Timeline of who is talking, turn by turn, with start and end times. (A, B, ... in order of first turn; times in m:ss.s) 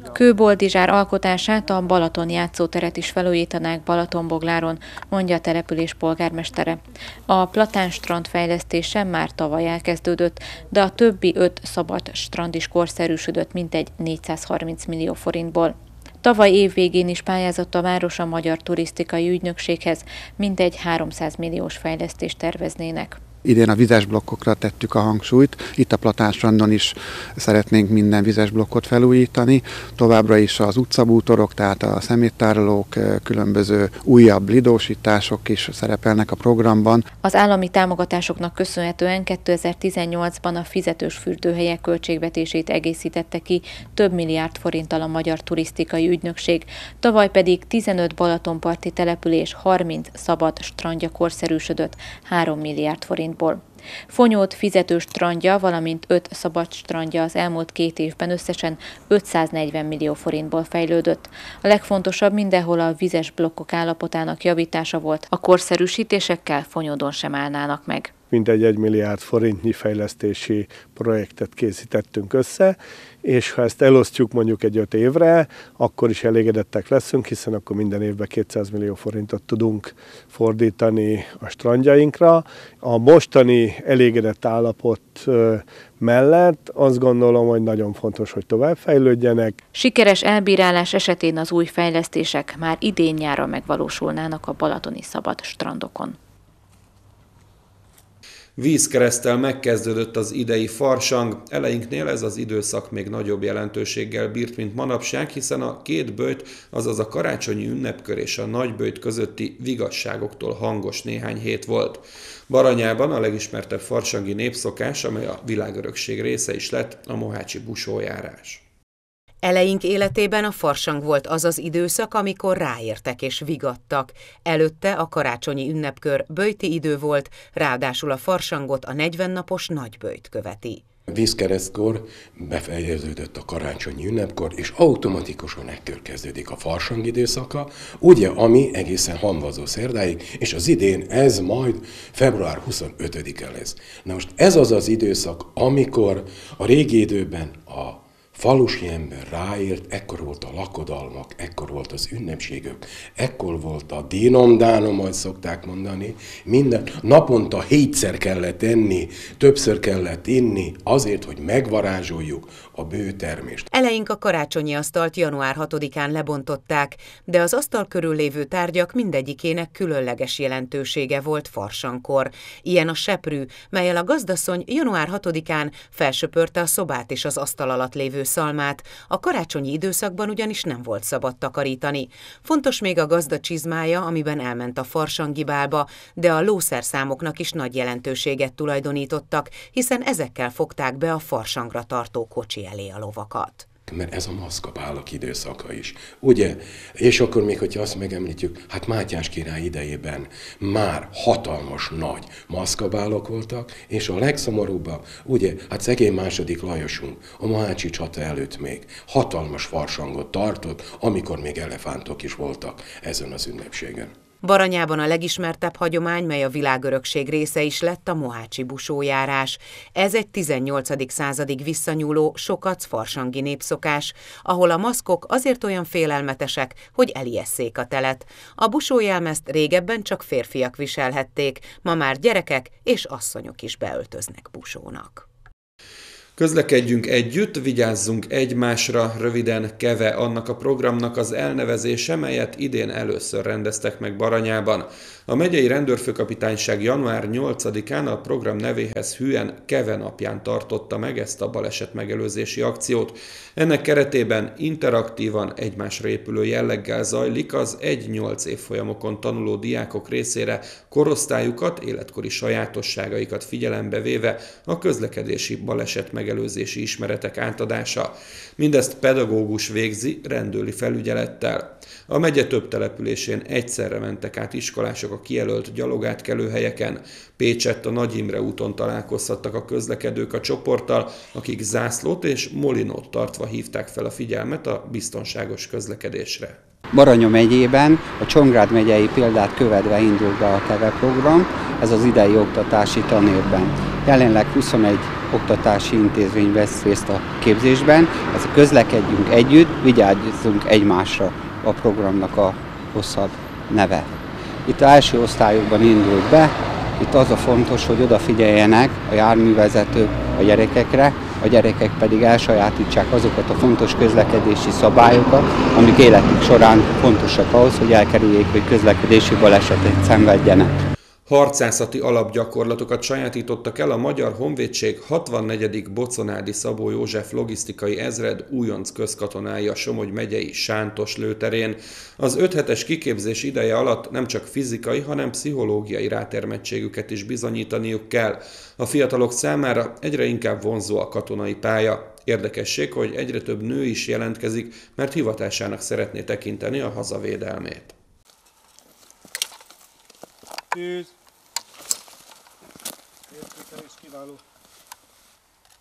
0:00.1-0:23.2 A
0:23.4-0:37.0 B
0:37.2-1:08.1 A
1:08.3-1:29.6 C
1:29.7-1:36.2 A
1:38.6-1:58.6 D
1:59.4-2:10.8 E
2:11.1-2:43.7 F
2:43.7-3:13.7 E
3:13.9-3:34.1 F
3:34.4-3:55.2 E
3:56.4-4:46.6 D
4:46.9-5:04.1 G
5:04.7-5:20.8 G
5:21.3-5:47.9 D